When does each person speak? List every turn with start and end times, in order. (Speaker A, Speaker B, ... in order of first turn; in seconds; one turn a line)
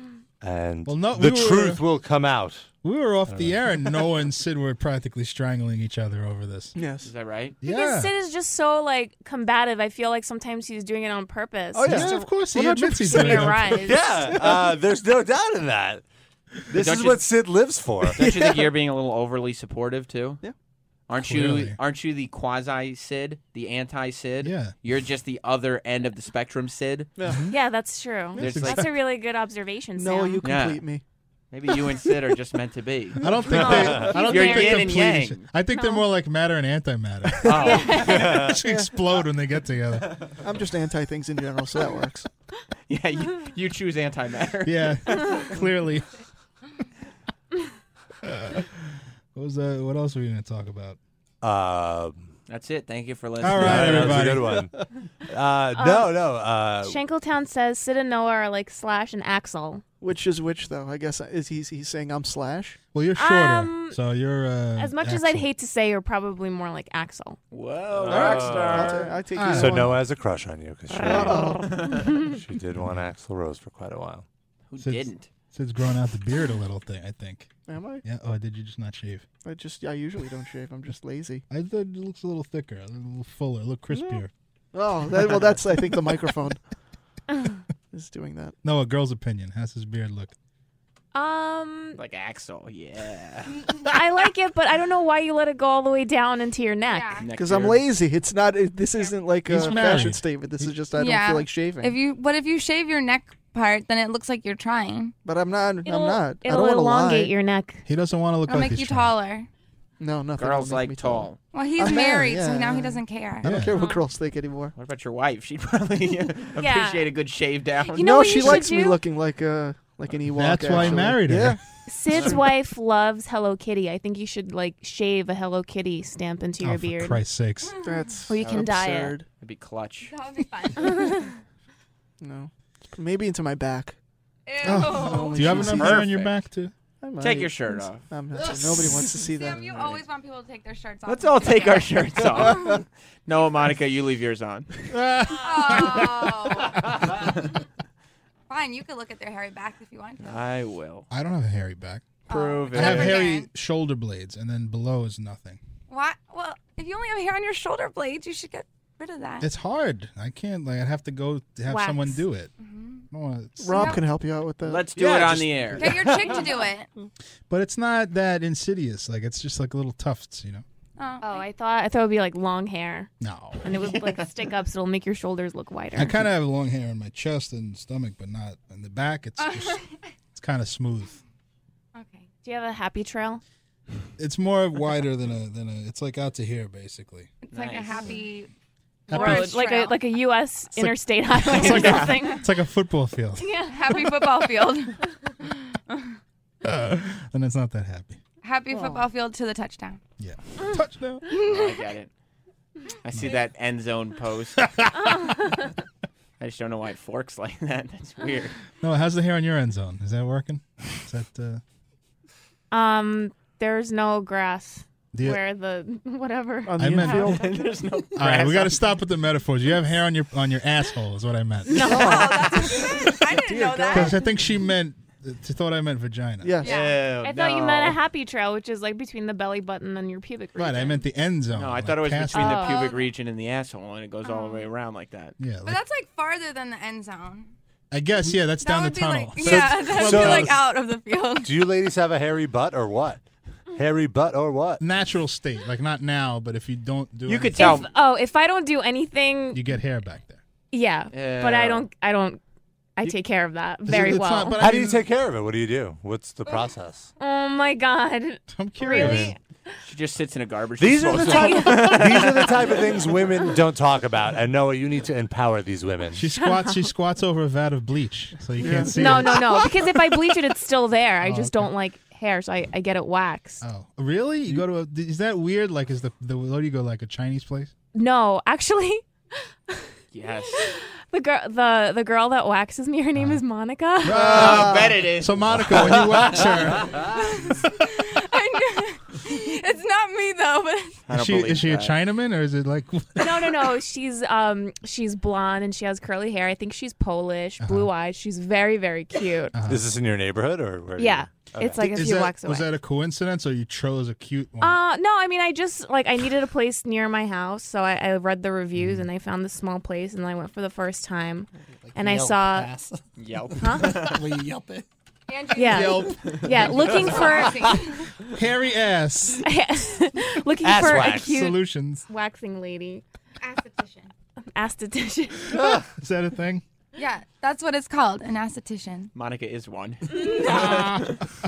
Speaker A: 0.4-2.7
Speaker B: 0.8-1.8
Speaker B: 2.8-6.7
Speaker A: 3.3-3.5
Speaker C: 6.7-7.1
Speaker D: 7.0-7.5
Speaker B: 7.6-8.1
Speaker E: 7.6-14.1
Speaker C: 11.7-13.8
Speaker B: 11.8-13.8
Speaker A: 13.8-16.0
Speaker C: 14.3-14.7
Speaker A: 16.7-18.2
Speaker D: 16.8-17.2
Speaker D: 18.1-20.4
Speaker C: 18.2-18.7
Speaker D: 21.1-27.1
Speaker B: 21.1-21.8
Speaker B: 24.4-24.7
Speaker C: 27.2-27.5
Speaker B: 27.2-27.6
Speaker E: 27.5-30.4
Speaker B: 28.4-28.9
Speaker D: 28.4-28.8
Speaker C: 29.9-31.0
Speaker D: 30.4-30.8
Speaker D: 31.5-35.5
Speaker B: 33.2-40.2
Speaker C: 33.2-33.9
Speaker E: 33.5-35.0
Speaker A: 33.7-34.0
Speaker E: 35.7-36.0
Speaker C: 37.4-37.7
Speaker D: 37.5-38.4
Speaker E: 37.6-38.3
Speaker A: 38.1-38.5
Speaker C: 38.6-38.9
Speaker C: 40.4-42.3
Speaker D: 42.9-45.6
Speaker B: 44.6-46.1
Speaker B: 48.2-48.7
Speaker B: 49.3-51.0
Speaker A: 51.4-52.3
Speaker D: 52.5-54.3
Speaker B: 53.4-54.7
Speaker A: 53.4-57.0
Speaker E: 55.7-56.2
Speaker E: 56.8-59.8
Speaker C: 60.0-62.8
Speaker B: 62.9-65.5
Speaker E: 63.1-64.0
Speaker E: 64.8-67.4
Speaker D: 67.5-69.2
Speaker A: 68.0-74.2
Speaker C: 68.1-70.0
Speaker B: 69.3-70.0
Speaker E: 70.9-72.3
Speaker C: 71.0-71.8
Speaker D: 71.4-72.2
Speaker D: 74.7-75.3
Speaker B: 74.8-79.2
Speaker C: 77.7-78.0
Speaker C: 79.4-81.4
Speaker B: 81.5-84.3
Speaker C: 83.9-84.2
Speaker C: 84.7-86.6
Speaker C: 87.9-88.5
Speaker B: 88.6-90.3
Speaker E: 91.1-92.0
Speaker D: 92.0-93.7
Speaker E: 93.8-97.2
Speaker F: 96.9-97.3
Speaker D: 97.2-97.8
Speaker C: 97.4-102.0
Speaker B: 99.5-100.7
Speaker F: 100.9-105.1
Speaker C: 105.2-107.3
Speaker E: 105.8-107.8
Speaker B: 107.8-109.1
Speaker F: 108.5-109.5
Speaker C: 110.0-114.7
Speaker D: 110.4-111.4
Speaker F: 111.5-113.5
Speaker B: 113.4-113.7
Speaker E: 113.7-114.0
Speaker D: 114.7-118.6
Speaker E: 116.6-117.0
Speaker E: 117.9-119.0
Speaker C: 118.0-121.6
Speaker B: 120.3-121.6
Speaker E: 121.9-127.2
Speaker D: 122.1-122.4
Speaker B: 126.6-127.7
Speaker C: 127.8-129.2
Speaker E: 128.3-129.1
Speaker D: 129.4-130.1
Speaker F: 130.1-131.3
Speaker E: 130.8-131.2
Speaker C: 132.2-134.0
Speaker F: 134.5-135.7
Speaker C: 134.6-136.1
Speaker B: 134.6-136.7
Speaker D: 135.0-136.3
Speaker C: 137.0-140.0
Speaker D: 137.2-138.0
Speaker F: 139.2-142.7
Speaker D: 141.1-144.7
Speaker B: 144.9-146.3
Speaker F: 145.3-147.3
Speaker F: 148.5-150.4
Speaker D: 150.2-151.1
Speaker B: 151.1-152.1
Speaker F: 152.3-153.5
Speaker D: 152.3-153.3
Speaker B: 152.7-155.6
Speaker F: 155.9-159.5
Speaker B: 159.4-162.5
Speaker E: 161.7-162.2
Speaker F: 162.6-163.0
Speaker B: 163.1-163.9
Speaker C: 163.6-166.0
Speaker F: 163.7-164.0
Speaker D: 164.6-166.4
Speaker F: 165.8-166.9
Speaker B: 167.5-170.6
Speaker F: 171.0-171.4
Speaker E: 171.2-176.2
Speaker B: 173.2-173.7
Speaker B: 175.9-181.2
Speaker F: 179.4-179.9
Speaker F: 181.9-182.2
Speaker E: 182.4-183.4
Speaker B: 184.2-187.3
Speaker F: 187.4-188.5
Speaker D: 187.5-188.2
Speaker B: 189.1-189.5
Speaker F: 189.1-190.0
Speaker E: 189.1-192.4
Speaker B: 190.8-193.4
Speaker D: 191.6-192.2
Speaker E: 193.4-194.2
Speaker F: 193.7-195.0
Speaker B: 196.6-198.2
Speaker F: 198.4-200.0
Speaker B: 200.2-201.2
Speaker F: 201.3-201.8
Speaker D: 201.4-202.1
Speaker D: 203.0-204.8
Speaker E: 205.2-205.5
Speaker D: 206.4-208.5
Speaker B: 208.8-211.6
Speaker E: 212.7-217.5
Speaker B: 215.1-215.4
Speaker C: 216.6-217.8
Speaker B: 216.8-217.4
Speaker D: 217.3-218.8
Speaker B: 218.2-221.9
Speaker E: 221.7-222.6
Speaker C: 221.8-224.2
Speaker F: 221.8-224.2
Speaker B: 223.9-226.6
Speaker C: 226.4-226.9
Speaker F: 226.6-227.0
Speaker A: 226.8-228.0
Speaker E: 227.2-231.0
Speaker B: 230.6-232.6
Speaker D: 231.5-235.3
Speaker E: 232.3-232.9
Speaker F: 232.4-233.1
Speaker F: 234.2-234.6
Speaker B: 235.4-235.8
Speaker F: 235.6-237.5
Speaker B: 237.9-240.6
Speaker F: 238.6-241.7
Speaker A: 239.4-240.6
Speaker A: 241.4-243.2
Speaker A: 243.7-244.8
Speaker B: 244.8-247.8
Speaker D: 247.3-247.9
Speaker E: 247.6-249.6
Speaker B: 249.5-250.4
Speaker E: 250.7-252.4
Speaker D: 251.1-251.8
Speaker E: 252.9-254.6
Speaker B: 253.8-255.0
Speaker A: 254.6-257.1
Speaker E: 257.2-259.4
Speaker B: 258.5-259.3
Speaker D: 259.8-262.9
Speaker A: 260.8-266.2
Speaker E: 261.3-262.0
Speaker B: 266.1-269.7
Speaker E: 266.4-266.9
Speaker C: 268.6-269.4
Speaker E: 268.9-273.6
Speaker B: 271.2-271.7
Speaker B: 273.6-277.7
Speaker E: 277.9-279.0
Speaker D: 280.1-280.7
Speaker E: 280.6-284.3
Speaker B: 284.0-287.0
Speaker D: 284.1-286.9
Speaker C: 284.1-285.0
Speaker A: 285.8-286.2
Speaker F: 287.0-291.0
Speaker D: 291.1-291.9
Speaker B: 291.1-293.6
Speaker E: 293.2-299.5
Speaker B: 297.6-297.9
Speaker B: 299.5-299.8
Speaker A: 299.6-301.8
Speaker E: 301.0-302.7
Speaker B: 301.7-304.7
Speaker E: 304.6-312.7
Speaker B: 308.8-309.1
Speaker G: 311.8-314.8
Speaker D: 313.2-314.2
Speaker E: 313.6-313.9
Speaker F: 315.3-316.2
Speaker E: 315.5-317.8
Speaker B: 315.7-316.2
Speaker F: 316.9-318.1
Speaker B: 318.3-319.4
Speaker E: 319.4-323.0
Speaker A: 320.6-321.4
Speaker B: 321.0-322.1
Speaker F: 323.4-324.1
Speaker E: 324.5-325.8
Speaker B: 326.0-326.6
Speaker F: 326.9-329.1
Speaker D: 329.1-331.1
Speaker E: 330.3-330.7
Speaker B: 330.4-331.1